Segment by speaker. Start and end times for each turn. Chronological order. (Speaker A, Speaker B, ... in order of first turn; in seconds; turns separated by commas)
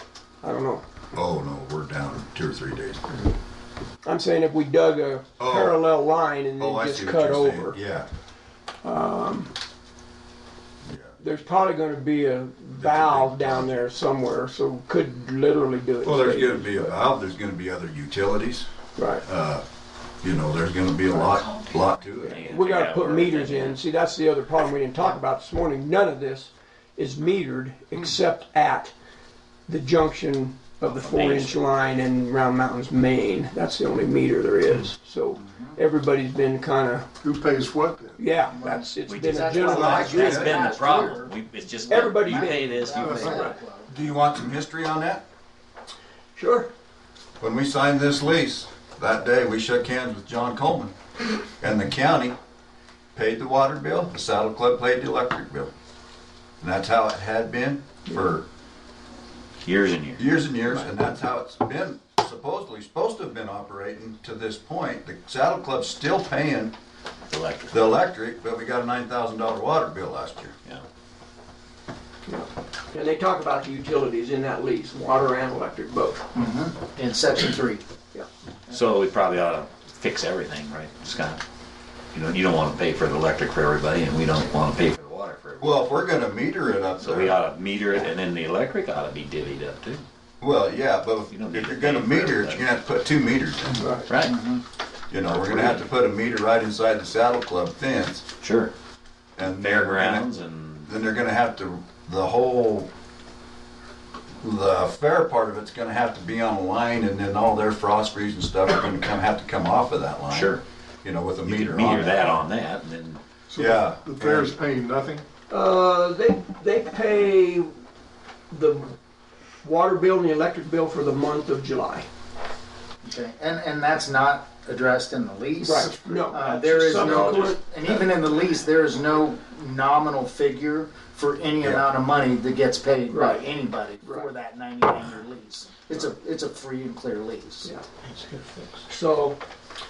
Speaker A: 0.4-0.8, Speaker B: 1.1-3.2, Speaker A: 4.0-7.8, Speaker B: 5.4-5.8, Speaker B: 6.6-8.1, Speaker A: 8.8-9.5, Speaker B: 10.8-11.2, Speaker A: 11.2-16.9, Speaker B: 12.7-13.8, Speaker B: 16.0-18.7, Speaker A: 19.0-19.2, Speaker B: 19.2-19.6, Speaker B: 20.2-22.4, Speaker C: 22.3-23.8, Speaker A: 22.4-28.9, Speaker A: 29.7-37.1, Speaker C: 30.8-31.6, Speaker D: 35.4-35.8, Speaker E: 37.2-38.3, Speaker A: 38.2-40.7, Speaker D: 38.5-43.9, Speaker B: 39.6-40.6, Speaker C: 39.8-43.2, Speaker A: 41.9-43.5, Speaker E: 42.9-43.5, Speaker B: 43.9-45.2, Speaker A: 46.4-46.7, Speaker B: 47.4-50.9, Speaker B: 51.6-52.4, Speaker B: 53.1-55.7, Speaker B: 56.6-58.5, Speaker C: 59.6-60.2, Speaker B: 60.2-66.7, Speaker C: 67.3-67.8, Speaker B: 67.7-70.5, Speaker A: 72.3-76.2, Speaker D: 76.3-77.8, Speaker C: 78.7-81.4, Speaker C: 82.1-86.3, Speaker B: 85.6-87.4, Speaker C: 87.0-90.0, Speaker B: 90.4-93.9, Speaker C: 91.3-92.7, Speaker C: 94.0-94.4, Speaker D: 94.2-94.6, Speaker B: 95.1-98.2, Speaker C: 95.2-95.9, Speaker C: 98.4-98.7, Speaker B: 99.4-100.3, Speaker C: 99.4-100.9, Speaker B: 100.8-102.9, Speaker B: 104.4-112.5, Speaker C: 110.3-110.6, Speaker C: 111.4-113.2, Speaker E: 113.5-115.2, Speaker B: 113.5-114.5, Speaker A: 115.5-117.7, Speaker A: 118.5-118.9, Speaker A: 119.6-122.1, Speaker D: 123.0-137.7, Speaker A: 125.6-127.6, Speaker C: 126.9-128.0, Speaker A: 133.1-134.2, Speaker C: 138.1-138.7, Speaker A: 138.9-139.4